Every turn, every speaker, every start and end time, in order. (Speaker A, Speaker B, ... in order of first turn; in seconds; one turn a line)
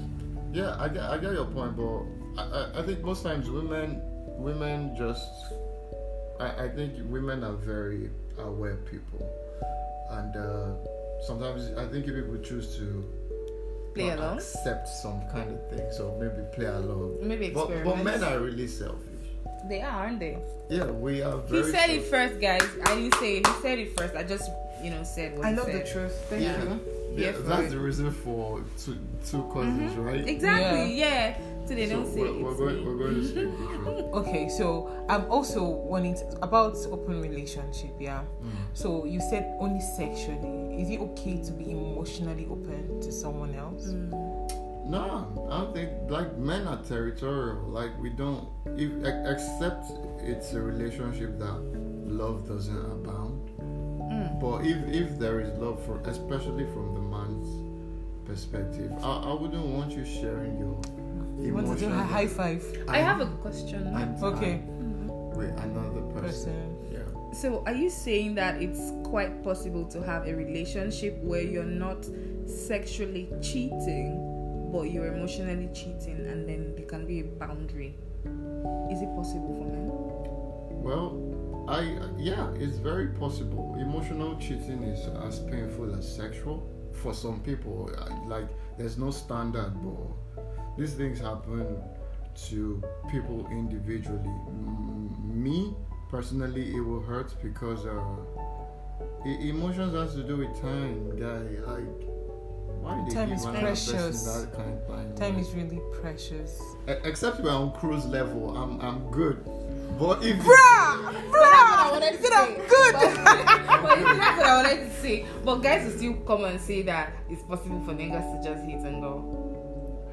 Speaker A: 0.5-5.5
Speaker A: 6.4-9.4
Speaker A: 10.1-13.1
Speaker B: 13.9-14.6
Speaker A: 13.9-19.3
Speaker B: 17.2-18.3
Speaker B: 19.6-20.5
Speaker A: 20.7-22.1
Speaker B: 21.5-27.8
Speaker C: 25.4-26.8
Speaker A: 26.4-30.4
Speaker B: 29.6-34.1
Speaker C: 30.4-30.9
Speaker A: 31.8-34.0
Speaker C: 34.1-43.9
Speaker A: 38.4-38.7
Speaker B: 43.9-44.3
Speaker A: 44.8-53.5
Speaker B: 54.1-54.4
Speaker A: 54.3-57.6
Speaker A: 58.2-63.3
Speaker C: 61.4-62.8
Speaker B: 62.8-65.2
Speaker A: 63.9-64.6
Speaker C: 64.2-64.7
Speaker A: 65.3-67.2
Speaker C: 66.2-66.8
Speaker B: 67.3-78.0
Speaker B: 78.9-80.0
Speaker A: 80.8-90.2
Speaker A: 90.8-98.3
Speaker A: 99.2-102.1
Speaker A: 102.8-105.5
Speaker C: 103.1-104.5
Speaker C: 105.2-106.8
Speaker A: 106.8-111.0
Speaker C: 110.3-114.1
Speaker B: 111.1-119.3
Speaker A: 113.5-114.5